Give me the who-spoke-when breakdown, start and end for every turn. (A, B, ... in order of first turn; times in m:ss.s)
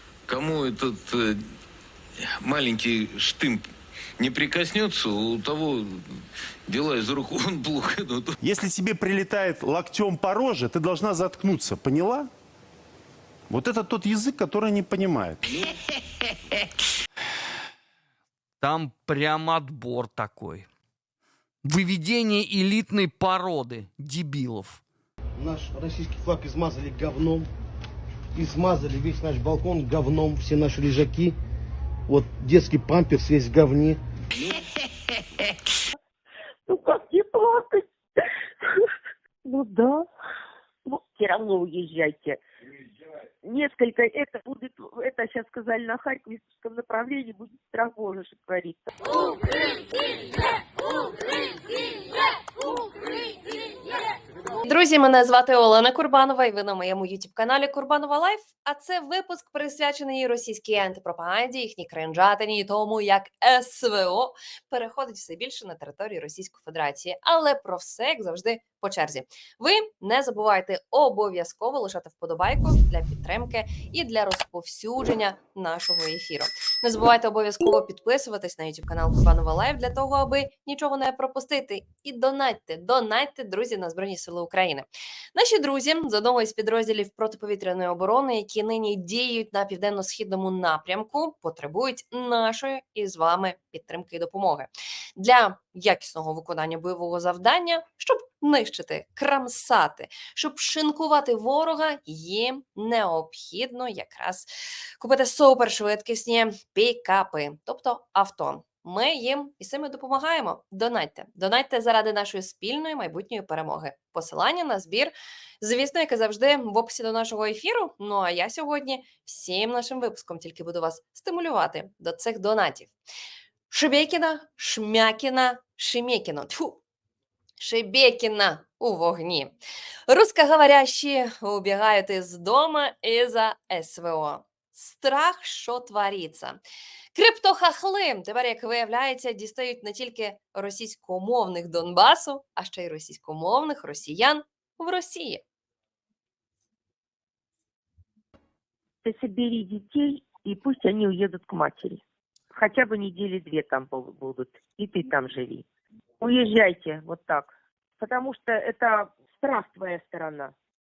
0:00.3-0:01.5 A
0:02.2-0:03.7 A
0:04.2-0:08.4 A
0:08.4-0:12.3 B
0:13.5-0:15.6 B
0:18.6-0:20.7 C
0:21.6-0:24.8 C
0:25.4-0:27.5 D
0:28.3-0:31.4 D
0:32.1-0:34.0 D
0:36.7-0:38.9 E
0:39.4-0:40.1 E
0:40.8-0:42.4 E
0:43.4-0:49.1 E
0:54.6-2:02.9 F
2:03.7-2:06.8 F
2:07.6-2:09.5 F
2:10.1-2:16.6 F
2:17.2-2:25.4 F
2:29.0-2:35.7 E
2:36.2-2:40.5 E